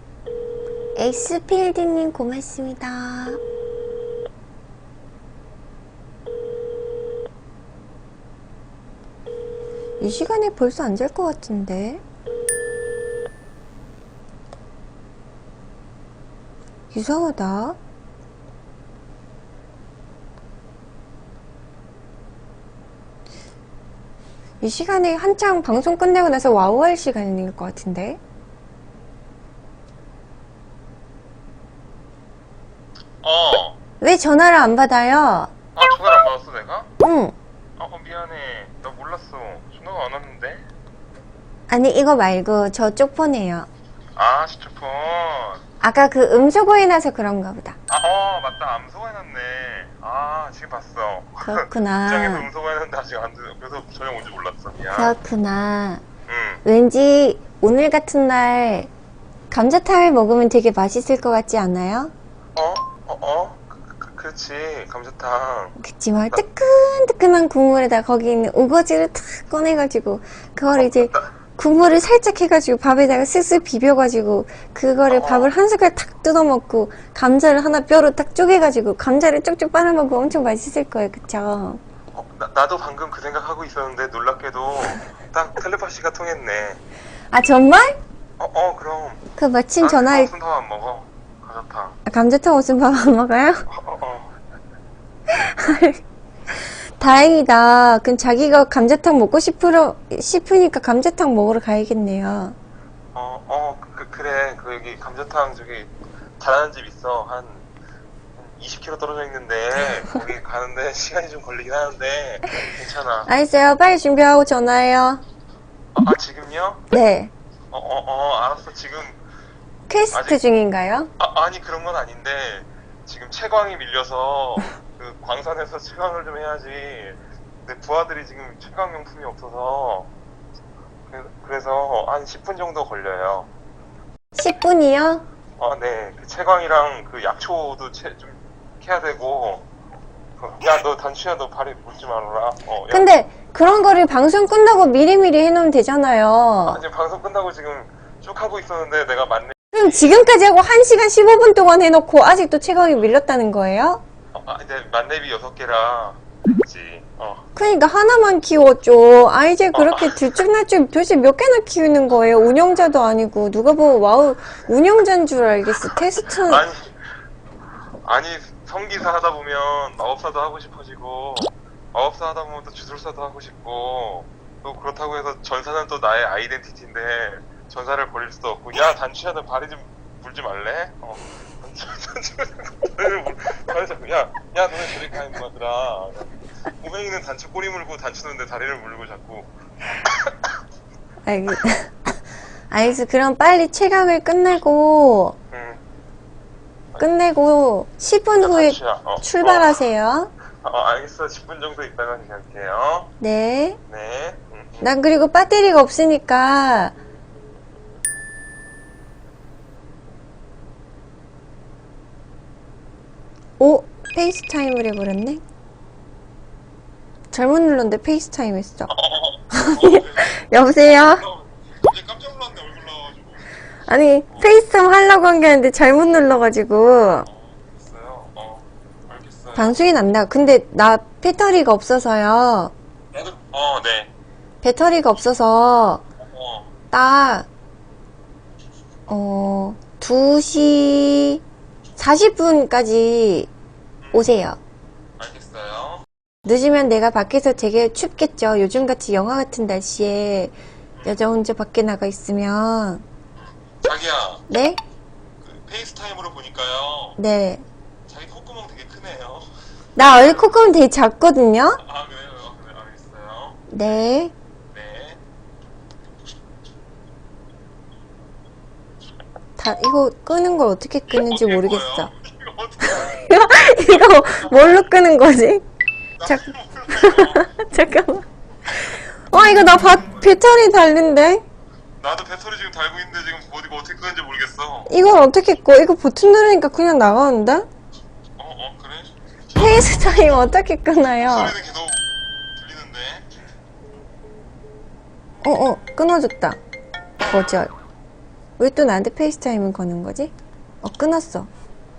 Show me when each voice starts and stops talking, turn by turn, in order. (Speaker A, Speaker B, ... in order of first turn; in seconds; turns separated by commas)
Speaker A: 0.9-3.4, Speaker A: 10.0-12.0, Speaker A: 16.9-17.8, Speaker A: 24.6-28.2, Speaker B: 33.2-33.8, Speaker A: 34.0-35.5, Speaker B: 35.8-36.9, Speaker A: 37.0-37.4, Speaker B: 37.8-40.6, Speaker A: 41.7-43.7, Speaker B: 44.2-45.6, Speaker A: 45.8-47.8, Speaker B: 47.9-55.2, Speaker A: 51.4-52.5, Speaker A: 54.9-56.0, Speaker B: 56.3-56.6, Speaker A: 56.6-58.9, Speaker A: 59.5-62.1, Speaker B: 62.6-65.8, Speaker A: 65.8-81.8, Speaker B: 70.7-71.3, Speaker B: 75.1-75.5, Speaker B: 82.1-86.8, Speaker A: 87.3-88.0, Speaker B: 88.4-89.2, Speaker A: 89.4-90.3, Speaker B: 89.8-92.0, Speaker A: 92.1-93.7, Speaker B: 93.7-94.3, Speaker A: 95.3-96.0, Speaker A: 97.0-102.6, Speaker B: 103.1-107.7, Speaker B: 108.4-113.3, Speaker A: 113.3-115.2, Speaker B: 116.0-117.0, Speaker A: 116.9-117.3, Speaker B: 117.7-119.2, Speaker A: 119.9-121.1, Speaker B: 120.1-120.4, Speaker B: 121.2-130.1, Speaker B: 131.1-133.5, Speaker A: 134.3-135.3, Speaker B: 135.6-139.7, Speaker B: 140.4-143.1, Speaker A: 142.9-146.8, Speaker B: 146.7-150.2, Speaker A: 149.7-154.0, Speaker B: 154.3-157.5, Speaker A: 157.6-166.7, Speaker B: 159.7-160.4, Speaker B: 166.3-167.0, Speaker B: 168.0-189.5, Speaker B: 190.0-190.5, Speaker A: 191.3-192.2, Speaker A: 192.7-195.4, Speaker B: 195.5-195.8, Speaker A: 197.0-200.3, Speaker B: 198.4-199.8, Speaker B: 200.6-203.1, Speaker A: 203.2-203.8, Speaker B: 203.9-204.9, Speaker A: 204.8-207.0, Speaker A: 213.6-215.4, Speaker A: 217.3-218.9, Speaker B: 218.9-223.6, Speaker A: 219.5-221.2, Speaker A: 223.9-227.3, Speaker B: 224.3-224.6, Speaker B: 227.2-229.8, Speaker A: 229.6-232.7, Speaker B: 233.1-234.1, Speaker A: 234.6-236.0, Speaker B: 236.2-236.7, Speaker A: 236.9-237.5, Speaker A: 239.1-241.4, Speaker A: 242.0-243.5, Speaker B: 244.0-244.3, Speaker A: 244.1-244.6, Speaker B: 245.2-246.0, Speaker A: 246.4-253.0, Speaker B: 250.9-251.2, Speaker B: 253.8-254.5, Speaker A: 254.5-254.8, Speaker B: 255.4-257.2, Speaker A: 257.2-257.6, Speaker B: 258.1-260.7, Speaker A: 260.0-261.8, Speaker B: 261.8-263.7, Speaker A: 263.7-264.3, Speaker B: 264.7-265.2, Speaker A: 269.6-272.1, Speaker B: 271.1-274.9, Speaker A: 272.8-275.6, Speaker B: 276.2-277.5, Speaker A: 276.2-278.2, Speaker A: 278.8-281.4, Speaker B: 282.0-284.9, Speaker A: 284.9-287.7, Speaker B: 288.4-290.5, Speaker A: 289.6-291.6, Speaker B: 291.2-292.0, Speaker B: 292.6-293.3, Speaker A: 295.4-296.6, Speaker A: 297.2-297.7, Speaker A: 298.6-301.5